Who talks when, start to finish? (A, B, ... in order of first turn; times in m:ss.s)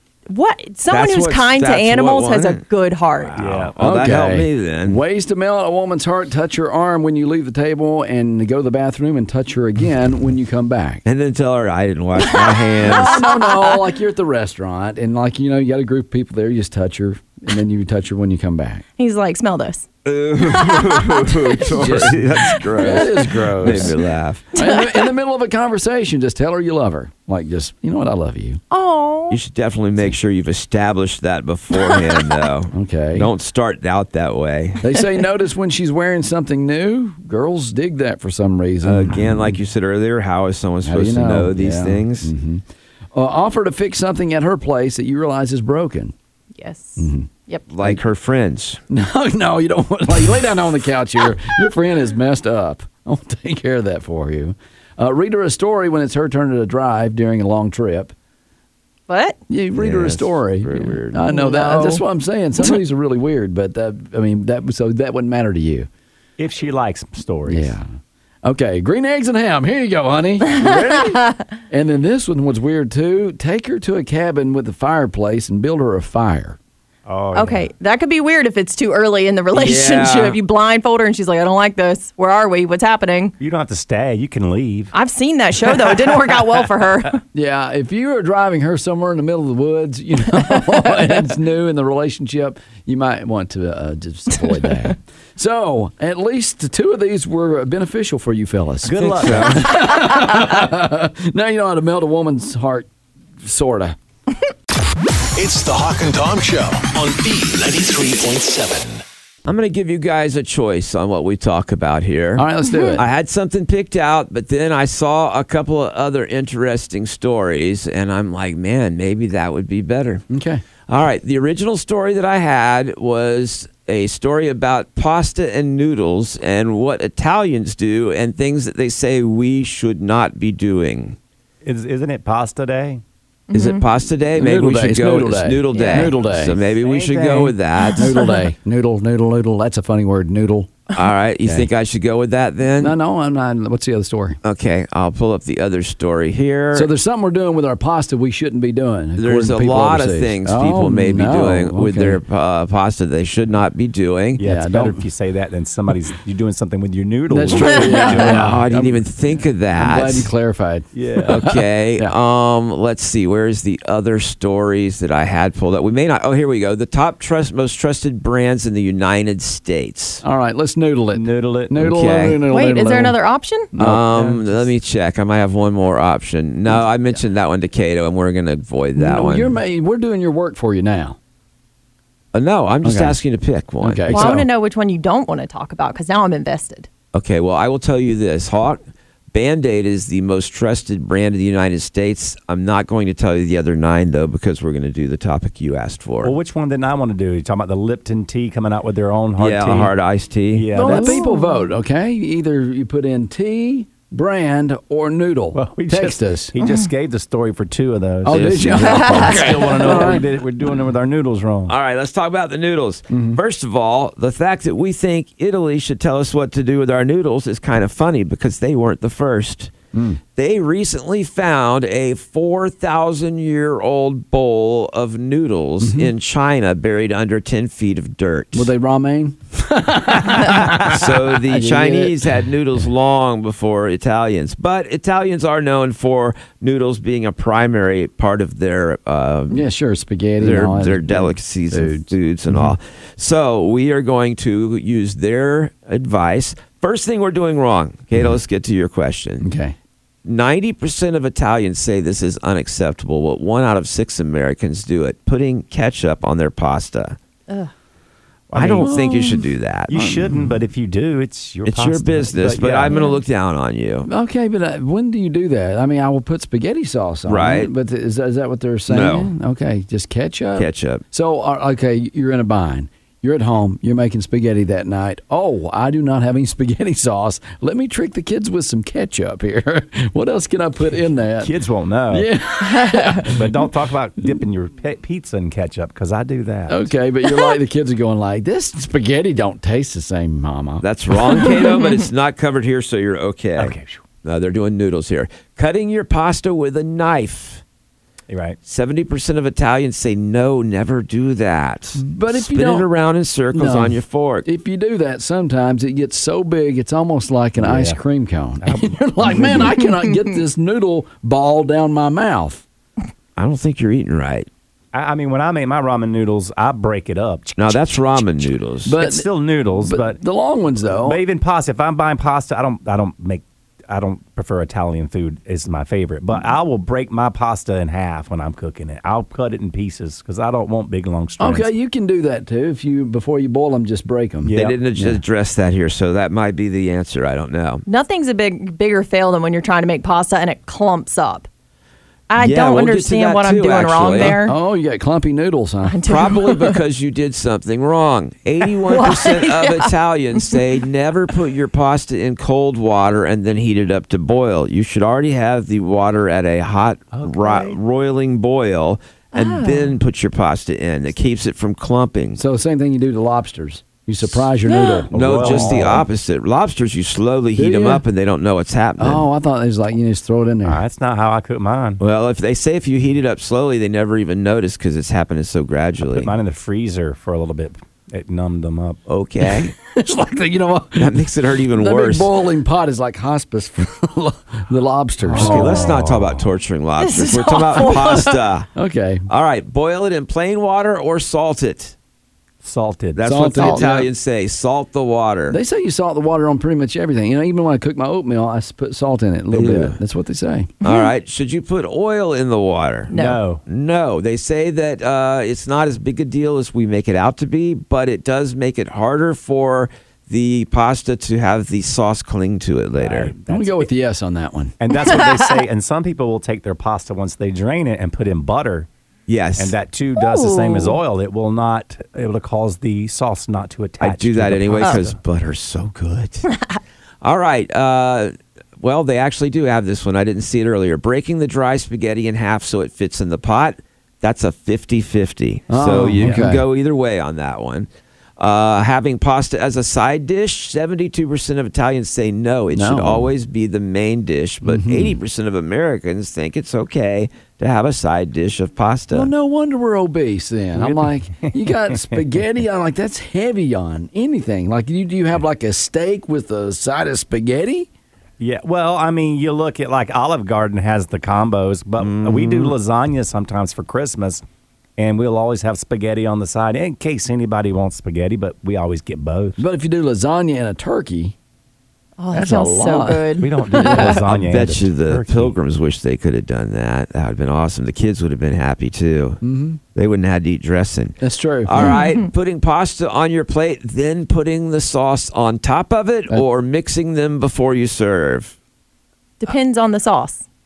0:00.3-0:03.4 A
0:00.9-0:02.6 B
0:03.3-0:03.7 C
0:03.4-0:05.0 B
0:03.8-0:11.0 D
0:11.0-0:13.2 B
0:12.2-0:13.8 A
0:12.8-0:18.8 D
0:19.0-0:19.8 A
0:20.0-0:24.4 B
0:20.4-0:21.4 A
0:21.7-0:23.9 D
0:24.5-0:24.9 A
0:24.5-0:28.6 D
0:28.7-0:29.4 A
0:29.3-0:34.8 B
0:32.7-0:33.3 D
0:34.8-0:39.6 D
0:38.8-0:42.3 B
0:40.8-0:46.1 D
0:46.6-0:47.7 A
0:47.0-0:47.3 D
0:47.7-0:48.8 B
0:48.9-0:58.1 D
0:59.1-0:59.4 A
0:59.5-1:05.9 D
0:59.7-1:01.3 B
1:01.3-1:02.0 A
1:06.4-1:07.8 C
1:07.5-1:07.9 D
1:08.4-1:16.6 D
1:11.0-1:11.4 A
1:17.0-1:17.7 C
1:17.3-1:23.3 A
1:19.5-1:20.4 B
1:23.4-1:24.9 C
1:24.9-1:27.2 A
1:25.7-1:26.7 C
1:27.3-1:42.9 D
1:38.8-1:39.7 C
1:39.0-1:39.8 B
1:43.4-1:44.0 D
1:45.3-1:49.0 E
1:49.4-2:00.2 B
1:52.4-1:53.0 D
2:00.3-2:00.6 D
2:00.9-2:11.2 B
2:11.6-2:13.0 C
2:13.5-2:13.8 A
2:13.5-2:18.2 B
2:14.4-2:16.6 D
2:15.7-2:16.1 A
2:16.7-2:17.6 C
2:17.8-2:18.4 A
2:18.0-2:20.8 D
2:20.9-2:23.0 B
2:21.4-2:21.7 D
2:22.8-2:24.4 D
2:24.4-2:26.9 B
2:26.7-2:32.2 D
2:29.2-2:34.4 B
2:34.4-2:38.6 C
2:34.4-2:35.0 D
2:37.3-2:39.0 D
2:37.8-2:40.3 B
2:39.7-2:42.1 D
2:40.9-2:41.4 C
2:41.3-2:50.2 B
2:50.2-2:53.2 D
2:51.1-2:52.0 C
2:51.8-2:52.4 B
2:52.4-2:53.7 A
2:53.8-2:54.0 D
2:53.8-2:59.6 B
2:54.1-2:54.6 C
2:59.0-3:01.2 D
3:02.3-3:04.3 B
3:02.8-3:03.2 D
3:03.8-3:04.4 D
3:04.1-3:06.9 A
3:07.1-3:08.8 B
3:09.3-3:16.3 B
3:16.2-3:19.9 C
3:19.4-3:20.7 B
3:20.5-3:21.2 C
3:20.7-3:21.7 A
3:20.8-3:26.5 D
3:25.5-3:31.7 C
3:28.2-3:30.2 D
3:28.3-3:30.0 B
3:31.7-3:39.7 B
3:33.1-3:33.4 D
3:39.9-3:40.2 D
3:40.4-3:48.7 B
3:45.8-3:46.1 D
3:48.5-3:52.2 D
3:50.5-3:59.6 B
3:59.5-4:02.1 D
4:00.4-4:09.4 B
4:09.4-4:09.7 D
4:10.2-4:17.2 B
4:18.5-4:18.9 C
4:18.5-4:20.0 B
4:18.8-4:20.5 D
4:19.9-4:23.0 C
4:21.6-4:24.1 B
4:22.9-4:23.2 A
4:24.1-4:41.5 D
4:27.3-4:27.7 B
4:28.9-4:29.3 B
4:30.6-4:31.0 B
4:41.4-4:42.3 C
4:42.1-4:43.7 D
4:43.2-4:46.9 C
4:46.7-4:50.8 D
4:50.8-4:57.6 B
4:53.6-4:54.0 C
4:58.3-4:58.6 C
4:58.6-5:04.4 B
5:02.0-5:02.9 D
5:03.5-5:12.6 D
5:07.6-5:08.0 C
5:08.6-5:09.8 C
5:13.4-5:14.5 B
5:14.9-5:17.6 C
5:17.6-5:19.0 B
5:18.8-5:19.3 D
5:19.0-5:20.2 C
5:19.8-5:21.2 D
5:20.9-5:31.7 C
5:31.4-5:35.2 D
5:34.4-5:34.8 C
5:34.5-5:37.8 B
5:37.8-5:41.5 A
5:42.3-5:44.6 A
5:42.4-5:44.4 B
5:44.4-5:46.0 D
5:45.9-5:46.8 A
5:46.0-6:02.4 B
5:48.8-5:49.9 A
5:57.1-5:57.8 C
5:59.3-6:00.0 A
6:02.3-6:06.0 D
6:04.6-6:05.0 A
6:05.1-6:06.0 C
6:05.1-6:09.2 B
6:07.6-6:08.0 D
6:09.0-6:10.8 D
6:10.6-6:12.0 C
6:12.0-6:16.3 B
6:16.0-6:19.0 C
6:19.1-6:19.7 B
6:19.8-6:25.9 D
6:21.0-6:22.3 B
6:25.2-6:26.5 C
6:25.4-6:28.7 B
6:27.0-6:28.4 A
6:28.7-6:29.3 D
6:29.3-6:31.9 B
6:32.6-6:33.4 C
6:33.2-6:35.6 B
6:33.2-6:34.1 D
6:35.5-6:40.7 D
6:39.5-6:40.0 B
6:40.8-6:43.1 B
6:43.1-6:43.4 A
6:43.1-6:43.6 C
6:43.6-6:53.3 B
6:53.0-6:53.9 C
6:53.5-6:54.8 D
6:54.8-6:58.9 C
6:55.1-6:55.4 A
6:59.3-6:59.7 B
6:59.6-7:05.2 C
7:00.2-7:01.0 A
7:04.0-7:06.5 B
7:07.2-7:17.9 B
7:15.7-7:16.6 D
7:18.4-7:29.3 B
7:22.7-7:23.3 D
7:24.6-7:25.2 D
7:29.1-7:37.9 D
7:30.7-7:32.4 C
7:38.4-7:44.4 C
7:42.0-7:42.7 B
7:45.0-7:49.6 C
7:49.6-7:51.3 D
7:52.2-7:54.2 A
7:52.3-7:53.2 D
7:53.4-7:55.5 C
7:53.9-7:59.4 B
7:59.4-7:59.8 D
7:59.9-8:08.5 B
8:01.2-8:01.9 D
8:01.8-8:02.2 A
8:09.4-8:10.4 A